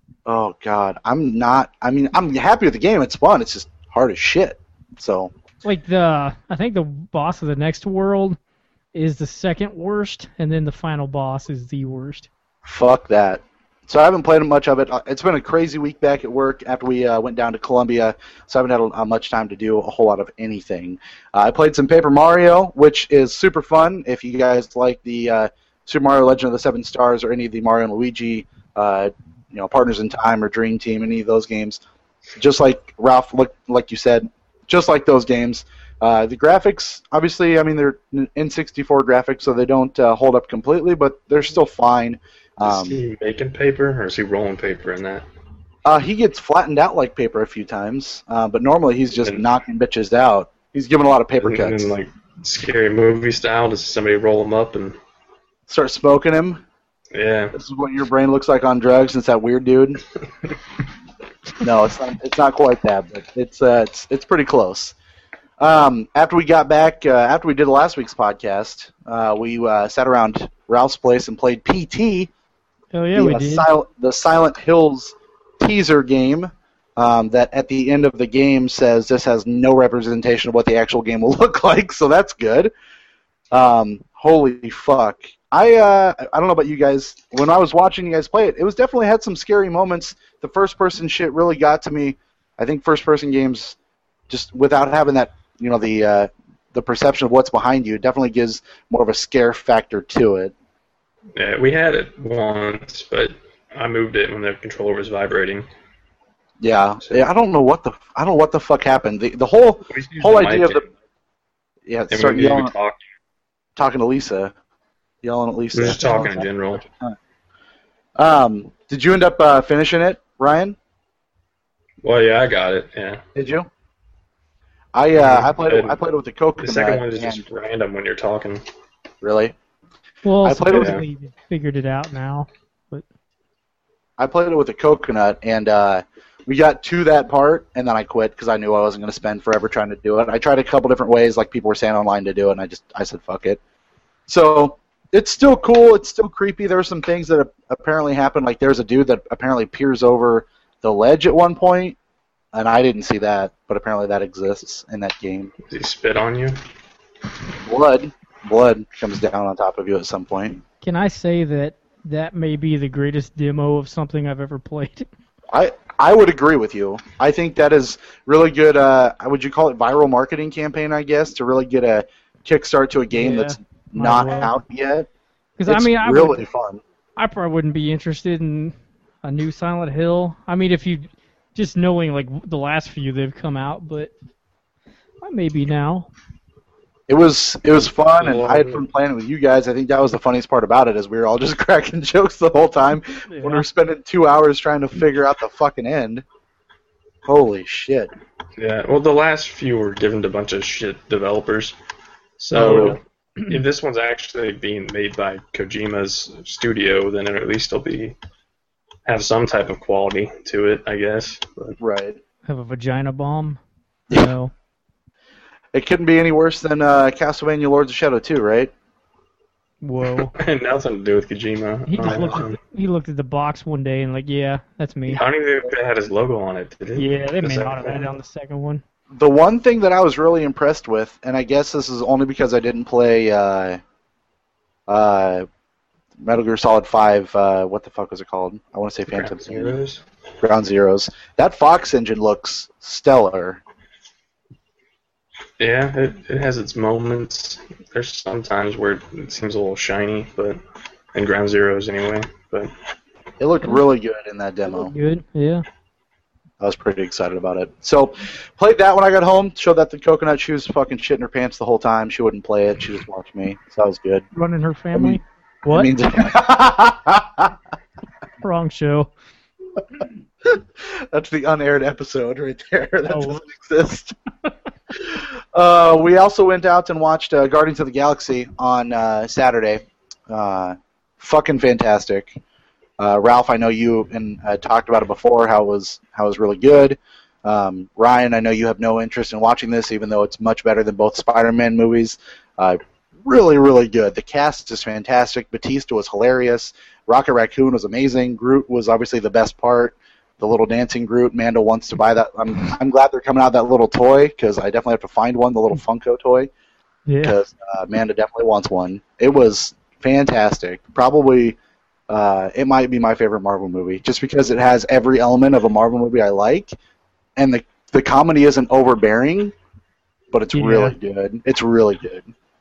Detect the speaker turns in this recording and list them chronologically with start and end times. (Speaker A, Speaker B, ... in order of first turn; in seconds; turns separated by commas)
Speaker A: 0.2-5.3, Speaker B: 5.6-8.4, Speaker B: 8.9-12.3, Speaker A: 12.6-31.8, Speaker A: 32.4-43.0, Speaker C: 42.6-45.2, Speaker A: 45.8-51.9, Speaker C: 51.4-55.0, Speaker A: 55.7-56.6, Speaker C: 57.1-57.5, Speaker A: 57.5-60.0, Speaker A: 61.6-65.0, Speaker A: 65.6-72.3, Speaker B: 72.9-73.7, Speaker A: 73.2-82.7, Speaker A: 83.5-93.8, Speaker A: 94.3-100.5, Speaker C: 101.3-105.7, Speaker A: 106.6-110.8, Speaker C: 109.9-110.8, Speaker A: 111.8-112.7, Speaker C: 112.1-113.0, Speaker A: 113.8-114.5, Speaker A: 115.2-117.2, Speaker C: 115.7-116.8, Speaker A: 118.2-120.8, Speaker C: 122.0-123.2, Speaker A: 123.3-123.7, Speaker A: 124.9-127.4, Speaker C: 125.1-126.0, Speaker C: 126.6-128.6, Speaker A: 129.2-129.5, Speaker B: 130.2-133.0, Speaker A: 130.4-131.0, Speaker C: 130.7-131.0, Speaker A: 134.2-143.6, Speaker A: 144.3-152.0, Speaker A: 152.5-155.5, Speaker C: 155.7-156.6, Speaker A: 157.7-160.6, Speaker B: 160.8-165.1, Speaker A: 165.5-175.1, Speaker B: 173.1-174.6, Speaker B: 175.6-176.4, Speaker A: 175.7-176.8, Speaker B: 177.2-184.1, Speaker B: 185.2-186.1, Speaker A: 187.1-196.2, Speaker C: 188.0-188.8, Speaker B: 193.3-193.6, Speaker A: 197.2-198.1, Speaker C: 198.6-201.8, Speaker C: 202.4-208.2, Speaker B: 202.5-203.6, Speaker A: 202.6-203.0, Speaker C: 209.1-211.8, Speaker A: 211.8-212.2, Speaker B: 212.5-213.6, Speaker B: 214.1-214.5, Speaker A: 215.7-218.7, Speaker B: 219.8-220.3, Speaker C: 220.1-222.6, Speaker B: 221.9-225.2, Speaker A: 222.1-222.4, Speaker C: 225.1-228.1, Speaker B: 226.9-228.8, Speaker A: 229.1-233.8, Speaker A: 234.9-235.4, Speaker A: 236.2-239.8, Speaker C: 239.1-240.0, Speaker A: 240.4-243.6, Speaker C: 245.6-250.6, Speaker C: 251.1-252.7, Speaker A: 253.4-254.9, Speaker B: 254.7-255.6, Speaker A: 256.6-264.2, Speaker B: 264.3-265.9, Speaker A: 264.9-267.5, Speaker B: 268.4-269.1, Speaker A: 270.4-274.1, Speaker B: 273.1-273.4, Speaker A: 274.9-282.4, Speaker A: 283.0-306.5, Speaker B: 307.1-307.4, Speaker A: 307.2-311.6, Speaker A: 312.1-316.7, Speaker A: 317.4-319.5, Speaker A: 320.3-322.3, Speaker B: 320.5-320.9